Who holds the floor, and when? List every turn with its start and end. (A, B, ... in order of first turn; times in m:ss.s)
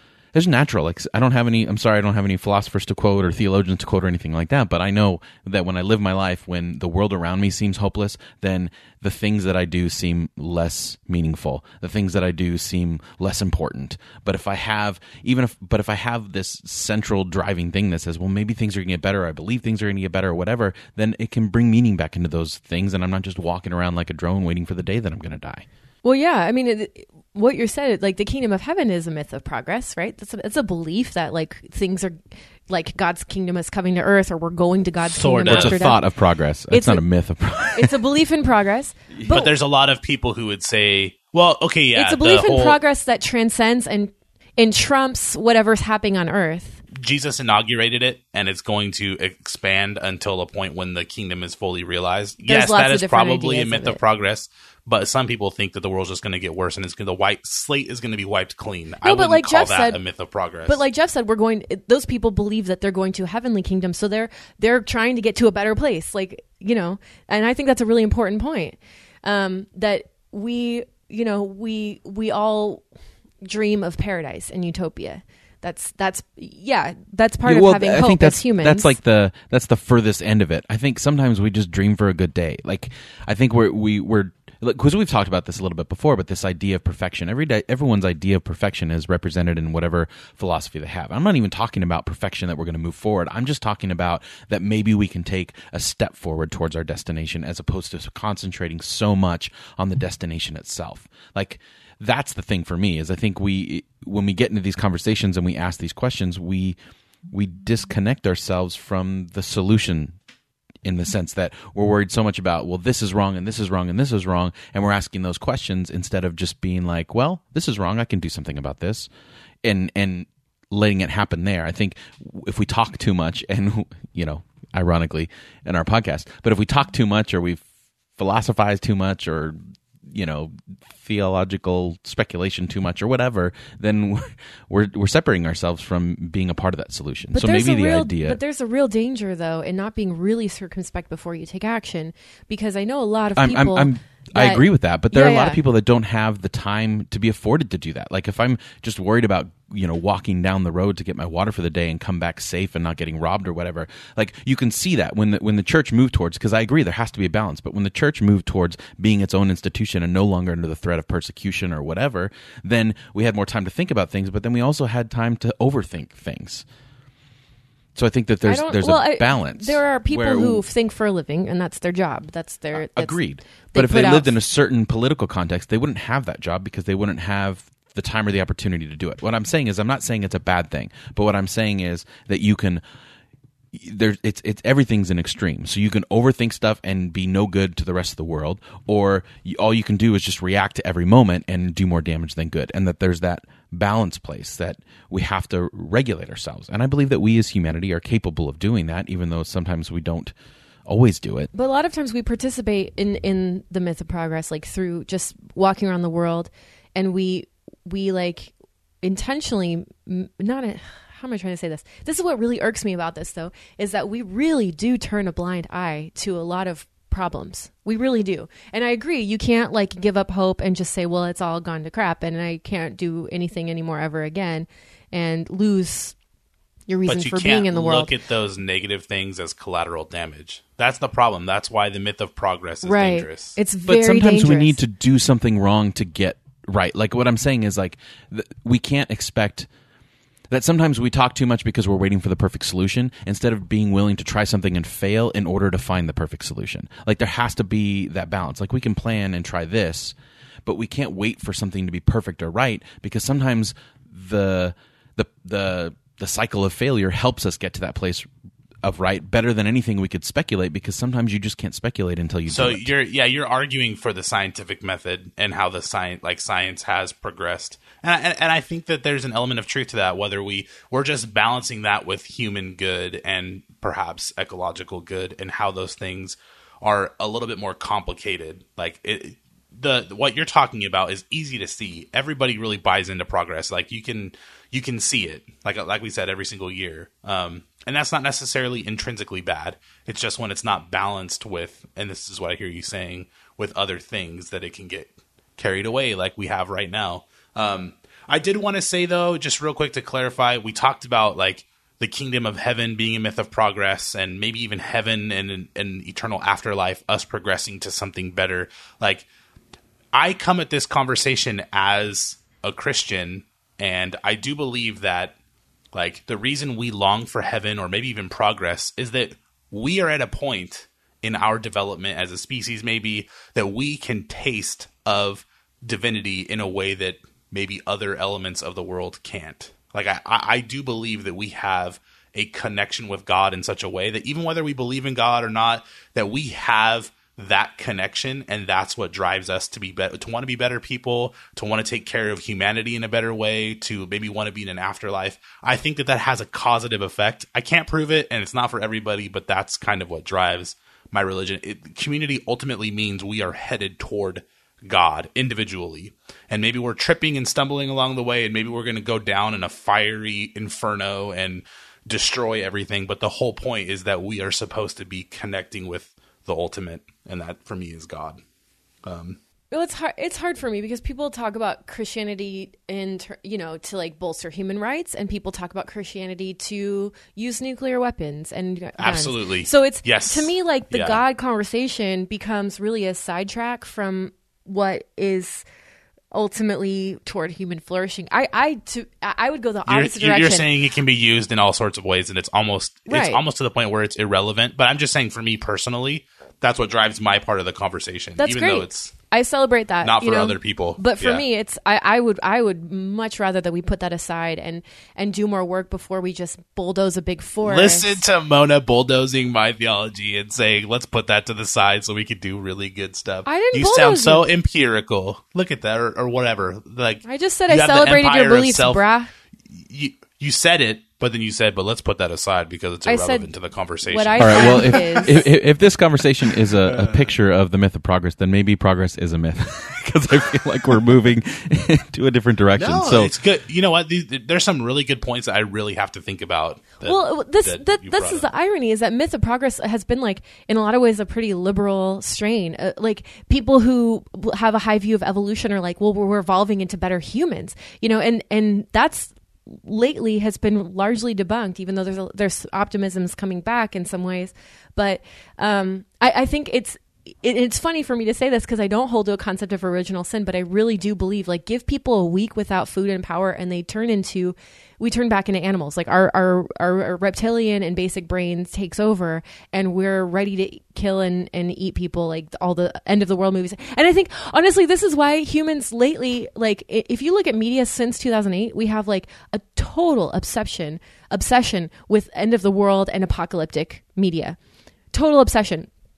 0:00.3-0:25.6 A
0:26.0-0:32.2 B
0:32.7-0:36.0 B
0:35.1-0:35.9 C
0:35.5-0:37.9 A
0:36.7-0:37.0 B
0:37.7-0:39.5 B
0:39.2-0:42.8 C
0:41.9-0:46.8 B
0:46.9-1:00.8 C
0:52.4-0:54.0 B
0:59.0-1:00.0 B
1:00.7-1:12.8 B
1:13.4-1:19.0 B
1:17.4-1:46.8 A
1:47.3-1:50.1 A
1:50.8-1:59.1 A
1:59.6-2:07.6 A
2:08.2-2:18.4 A
2:17.3-2:25.6 B
2:23.4-2:46.6 A
2:47.9-2:50.6 A
2:48.4-2:53.2 B
2:52.7-3:02.8 A
2:53.7-2:54.4 B
3:03.7-3:20.3 A
3:20.8-3:21.5 A
3:21.5-3:46.2 B
3:46.9-3:48.1 B
3:47.1-3:53.6 C
3:52.8-3:54.8 B
3:53.8-3:59.7 A
4:00.5-4:18.3 A
4:18.8-4:22.9 A
4:22.5-5:09.2 C
5:10.1-5:15.3 C
5:15.9-6:08.4 C
6:09.0-6:09.4 C
6:09.7-6:25.6 B
6:19.0-6:21.2 C
6:26.3-6:30.7 B
6:29.9-6:39.1 C
6:33.1-6:33.4 B
6:38.4-6:48.2 B
6:40.0-6:41.4 C
6:47.6-6:59.0 C
6:53.4-6:54.5 B
6:57.2-6:59.3 B
6:59.7-7:05.2 C
7:03.0-7:03.5 B
7:04.1-7:05.4 B
7:04.4-7:13.3 A
7:06.8-7:07.3 C
7:12.8-7:18.5 C
7:17.0-8:04.6 B
8:05.1-8:05.9 B